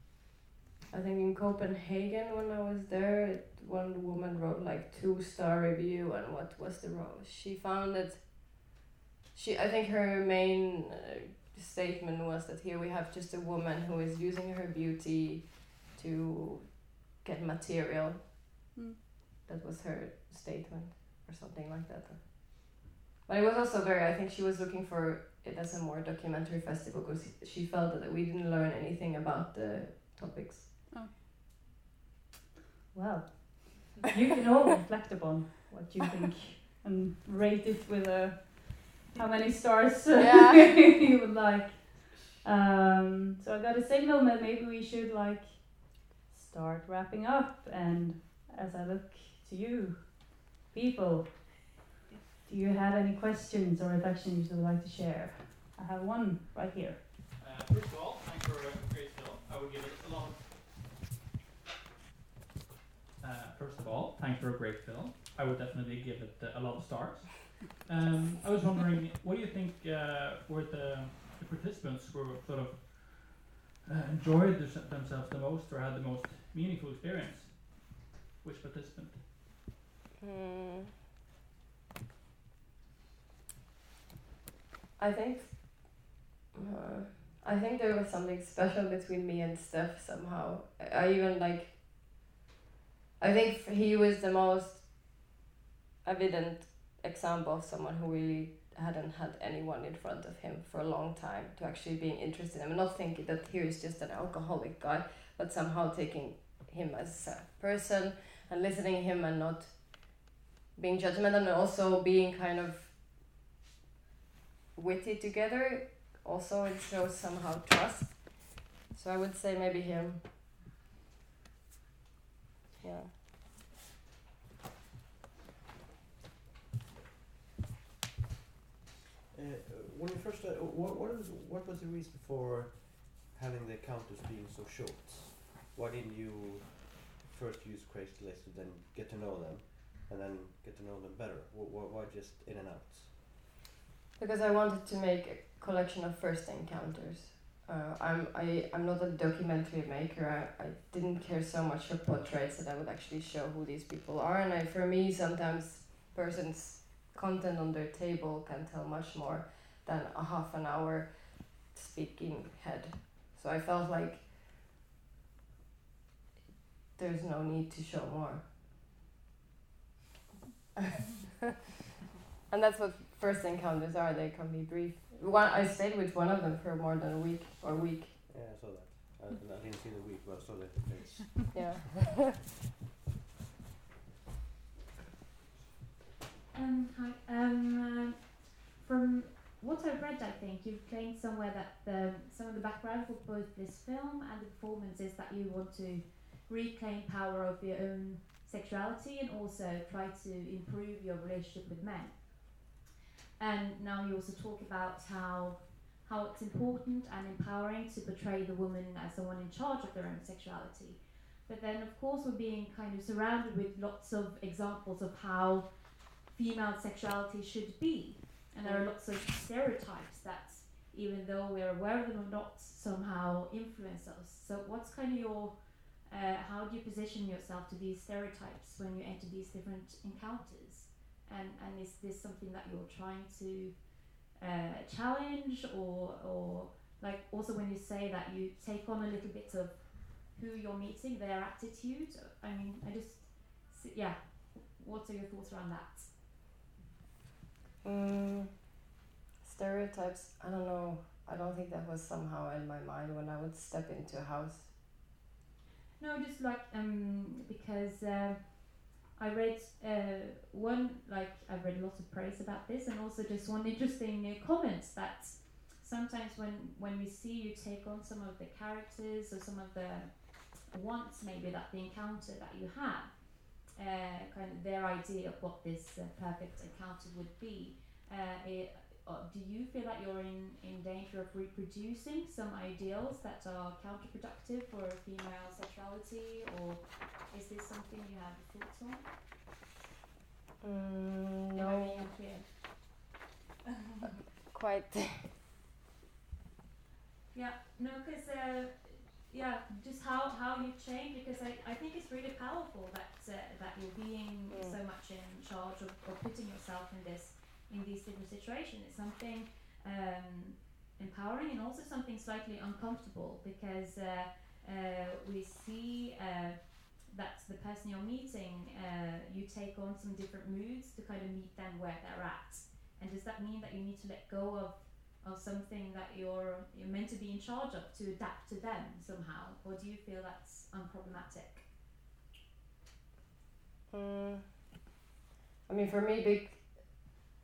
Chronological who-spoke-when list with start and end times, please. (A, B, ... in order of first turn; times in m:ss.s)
0:00.9-0:08.7 A
0:09.3-0:18.3 A
0:19.5-0:30.8 A
0:32.9-0:51.7 B
0:40.2-0:40.7 A
0:52.4-0:57.0 B
0:57.4-1:00.6 C
1:03.2-1:19.3 C
1:20.2-1:21.0 A
1:25.0-1:32.2 A
1:33.2-1:35.3 A
1:36.0-1:53.0 A
1:54.8-2:00.3 A
2:02.8-2:03.1 A
2:09.3-2:23.1 D
2:24.2-2:44.3 A
2:47.0-2:48.5 A
2:52.5-2:58.2 A
2:58.3-3:01.8 D
3:01.5-3:02.3 A
3:06.5-3:22.8 E
3:23.4-4:06.1 E
3:38.6-3:38.9 A
4:07.8-4:08.8 A
4:09.4-4:14.7 A
4:16.0-4:49.2 E
4:50.6-4:52.2 A
4:51.5-4:52.9 E
4:54.5-4:55.3 A
4:57.3-5:31.7 E
5:04.5-5:04.8 A
5:33.9-5:34.8 A
5:35.7-5:36.9 A